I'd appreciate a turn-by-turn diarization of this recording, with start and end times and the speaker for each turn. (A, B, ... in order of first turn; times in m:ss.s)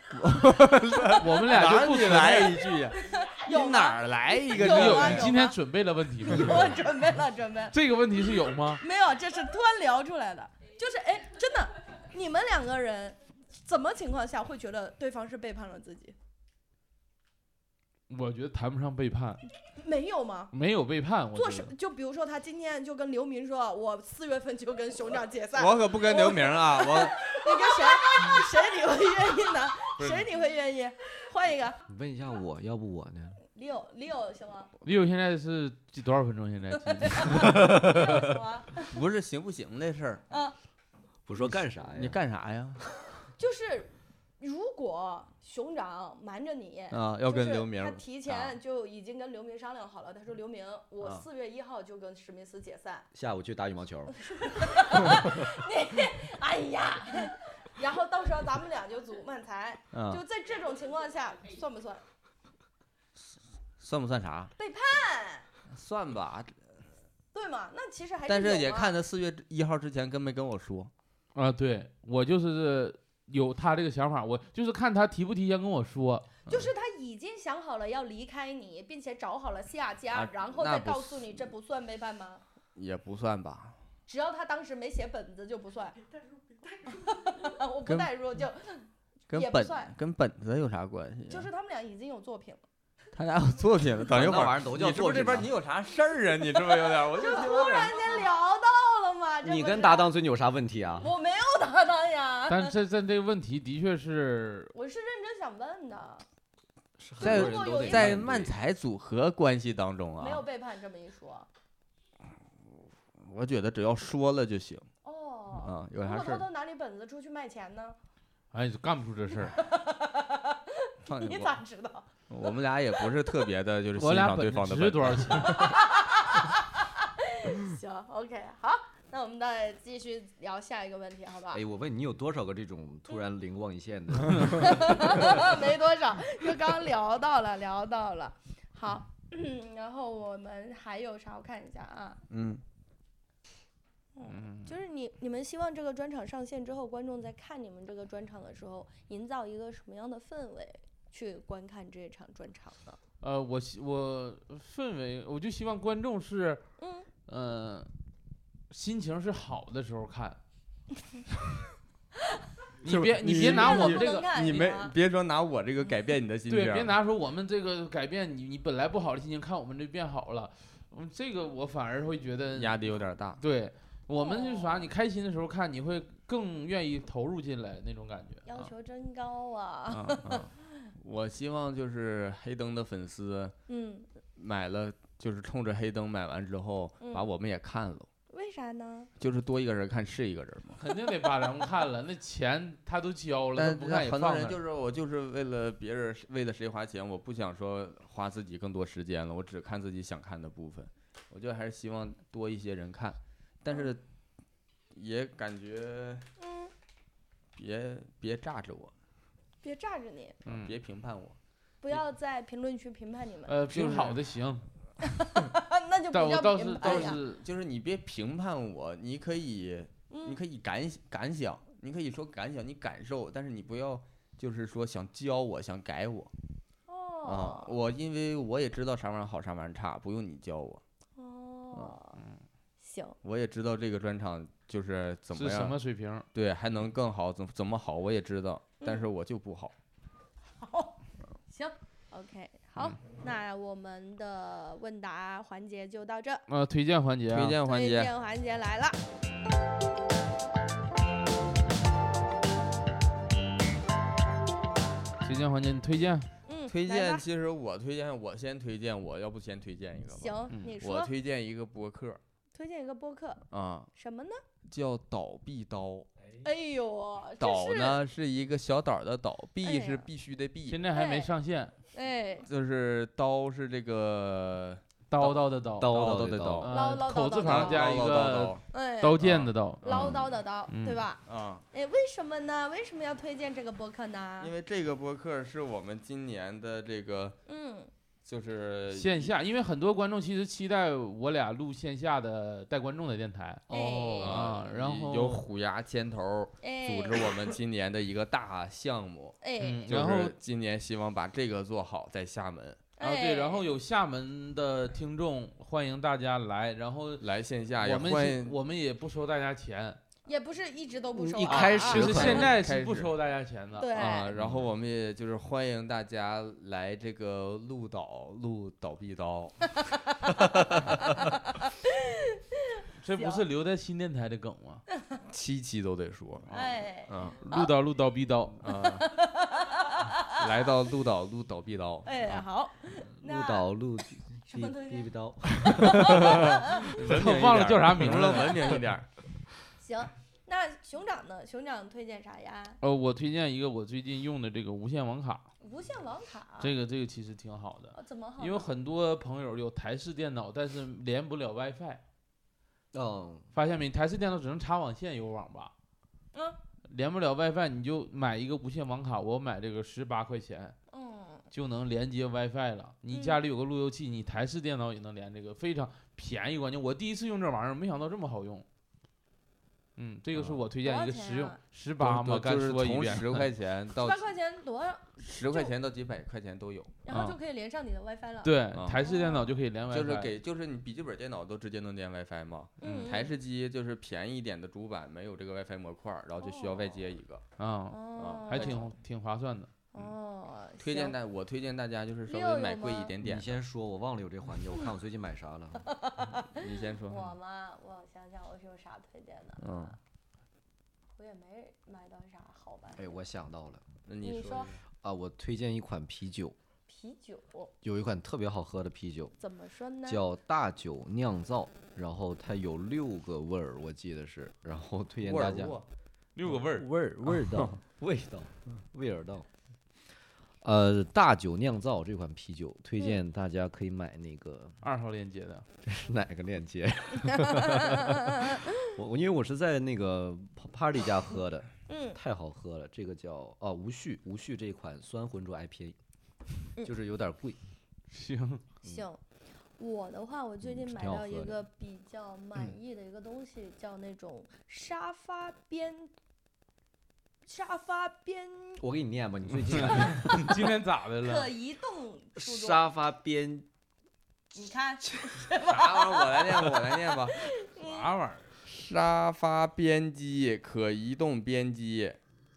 0:00.1-0:05.3 A
0:00.4-0:01.2 B
0:01.1-0:02.6 C
0:02.2-0:05.6 B
0:04.5-0:06.7 C
0:06.2-0:16.1 B
0:07.7-0:08.8 C
0:18.1-0:19.5 C
0:19.8-0:20.5 B
0:20.5-0:21.7 C
0:21.3-0:31.8 B
0:25.5-0:27.2 A
0:30.0-0:30.2 C
0:31.9-0:33.4 D
0:33.5-0:34.7 B
0:34.8-0:37.5 C
0:36.9-0:38.9 B
0:37.3-0:38.3 D
0:38.9-0:40.2 A
0:40.3-0:40.6 B
0:41.3-0:42.2 D
0:41.4-0:42.8 A
0:43.4-0:53.1 B
0:46.9-0:48.6 A
0:51.0-0:51.2 A
0:53.1-0:54.2 D
0:54.2-1:02.0 B
0:59.9-1:00.2 A
1:03.8-1:04.5 A
1:04.6-1:05.4 B
1:05.7-1:06.6 A
1:07.3-1:08.9 B
1:08.3-1:10.9 A
1:11.3-1:16.3 C
1:16.5-1:22.4 B
1:20.1-1:21.5 A
1:22.7-1:23.8 A
1:24.1-1:26.1 B
1:26.7-1:29.9 B
1:27.8-1:28.1 A
1:29.3-1:31.5 A
1:31.3-1:32.6 B
1:33.1-1:38.0 A
1:34.1-1:35.5 D
1:36.9-1:40.1 B
1:39.4-1:41.1 D
1:41.0-1:42.7 B
1:42.5-1:44.7 C
1:44.7-1:46.2 B
1:47.0-1:48.5 D
1:47.2-1:48.2 B
1:47.2-1:50.4 A
1:50.2-1:51.5 B
1:53.2-1:54.9 A
1:55.0-1:58.0 B
1:55.6-1:56.4 A
1:58.5-1:59.6 C
1:59.5-2:02.1 B
2:01.0-2:01.5 A
2:02.3-2:05.8 A
2:03.0-2:03.4 B
2:04.0-2:05.6 C
2:05.4-2:11.6 B
2:11.5-2:15.7 D
2:14.6-2:22.2 B
2:22.3-2:22.6 A
2:24.2-2:33.0 B
2:24.3-2:24.7 C
2:33.2-2:36.6 C
2:36.8-2:37.1 B
2:37.3-2:37.9 C
2:38.7-2:40.4 C
2:42.8-2:44.3 C
2:42.8-2:46.9 A
2:43.3-2:44.9 B
2:46.5-2:52.8 C
2:52.5-2:53.4 A
2:53.4-2:58.7 C
2:54.2-2:54.9 B
2:58.4-3:00.5 B
2:59.9-3:00.2 C
3:00.2-3:03.5 A
3:03.7-3:04.1 B
3:04.4-3:08.1 A
3:07.0-3:07.3 B
3:08.3-3:09.1 B
3:09.2-3:10.8 A
3:10.8-3:14.6 C
3:13.5-3:24.0 A
3:24.9-3:26.2 A
3:26.4-3:26.7 B
3:27.6-3:28.9 A
3:29.6-3:30.4 B
3:30.4-3:31.4 A
3:30.5-3:30.7 C
3:31.8-3:33.6 B
3:33.5-3:34.6 C
3:33.7-3:34.2 A
3:35.0-3:37.2 B
3:36.1-3:37.4 C
3:36.8-3:46.3 A
3:40.1-3:40.4 B
3:46.9-3:47.8 B
3:47.2-3:50.8 A
3:51.2-3:52.2 B
3:52.8-3:53.2 B
3:53.2-3:55.8 A
3:55.3-3:56.3 C
3:56.3-3:59.7 A
3:58.8-3:59.1 B
4:00.6-4:00.9 B
4:01.5-4:06.4 B
4:06.5-4:07.6 C
4:07.3-4:08.1 A
4:07.6-4:09.0 B
4:15.2-4:16.3 C
4:16.5-4:17.2 B
4:16.7-4:22.2 A
4:20.2-4:21.1 B
4:22.5-4:24.4 B
4:23.5-4:23.9 A
4:24.6-4:26.1 A
4:26.4-4:28.0 B
4:27.4-4:30.8 A
4:29.6-4:30.1 B
4:30.7-4:31.7 C
4:30.9-4:31.3 B
4:31.9-4:32.5 B
4:32.4-4:36.7 A
4:35.1-4:39.8 C
4:35.8-4:36.7 D
4:36.7-4:38.0 B
4:37.4-4:38.6 A
4:38.7-4:39.2 B
4:39.2-4:40.2 A
4:39.8-4:44.5 B
4:40.7-4:41.0 C
4:41.2-4:41.6 A
4:44.4-4:47.4 A
4:47.5-4:47.9 B
4:48.2-4:49.3 A
4:48.9-4:55.4 C
4:53.7-4:54.4 B
4:53.7-4:54.2 D
4:54.2-5:02.8 A
4:56.6-4:57.3 B
4:59.4-4:59.9 B
4:59.6-5:00.4 C
5:03.0-5:03.7 B
5:03.0-5:07.2 C
5:07.2-5:08.6 A
5:07.8-5:10.0 C
5:10.2-5:12.5 B
5:11.1-5:12.5 D
5:11.5-5:14.6 C
5:11.6-5:13.1 A
5:13.8-5:14.4 B
5:13.9-5:19.6 A
5:20.1-5:23.4 B
5:23.0-5:24.8 C
5:25.3-5:26.5 A
5:26.5-5:26.8 C
5:26.5-5:27.7 B
5:27.1-5:27.4 A
5:27.4-5:28.6 C
5:28.6-5:29.0 A
5:28.6-5:30.4 B
5:30.4-5:32.4 A
5:32.0-5:33.7 B
5:33.2-5:36.5 D
5:34.4-5:37.0 B
5:35.7-5:39.0 A
5:36.9-5:38.8 C
5:39.8-5:42.8 B
5:42.8-5:45.5 C
5:45.6-5:46.7 B
5:46.6-5:52.0 C
5:47.9-5:48.7 B
5:52.9-5:53.5 D
5:53.5-5:55.7 C
5:56.3-5:56.6 B
5:56.8-6:00.7 C
6:00.9-6:01.5 B
6:01.5-6:08.6 C
6:03.1-6:03.4 B
6:10.0-6:13.5 C
6:10.8-6:11.6 B
6:12.0-6:14.2 A
6:13.9-6:15.7 B
6:15.2-6:17.0 A
6:17.0-6:19.6 B
6:17.1-6:17.4 C
6:18.4-6:20.3 C
6:18.7-6:19.0 A
6:19.9-6:27.4 A
6:22.8-6:23.3 B
6:26.4-6:27.0 B
6:27.6-6:29.7 C
6:27.9-6:28.9 B
6:28.2-6:28.8 A
6:29.9-6:31.2 B
6:30.8-6:33.6 A
6:32.3-6:33.2 B
6:33.2-6:35.9 D
6:35.9-6:40.0 B
6:36.6-6:37.2 A
6:39.6-6:39.9 A
6:41.2-6:43.2 B
6:42.9-6:43.8 D
6:44.1-6:44.8 A
6:44.2-6:44.7 B
6:45.0-6:46.6 D
6:46.9-6:47.7 B
6:47.8-6:49.3 D
6:49.4-6:50.2 B
6:50.0-6:55.8 D
6:55.2-6:55.8 A
6:56.3-6:56.9 C
6:56.4-6:59.4 D
6:57.3-6:57.7 A
7:00.6-7:04.8 D
7:04.8-7:05.6 C
7:05.8-7:16.0 D
7:07.3-7:08.7 B
7:11.9-7:12.2 B
7:16.8-7:17.6 D
7:18.1-7:18.6 C
7:18.8-7:19.2 B
7:19.8-7:26.1 B
7:20.6-7:21.6 D
7:27.4-7:28.8 B
7:28.8-7:30.5 D
7:29.8-7:31.5 C
7:29.9-7:32.9 B
7:32.4-7:33.7 D
7:34.5-7:38.1 B
7:35.7-7:37.5 A
7:37.8-7:38.5 C
7:38.6-7:42.2 A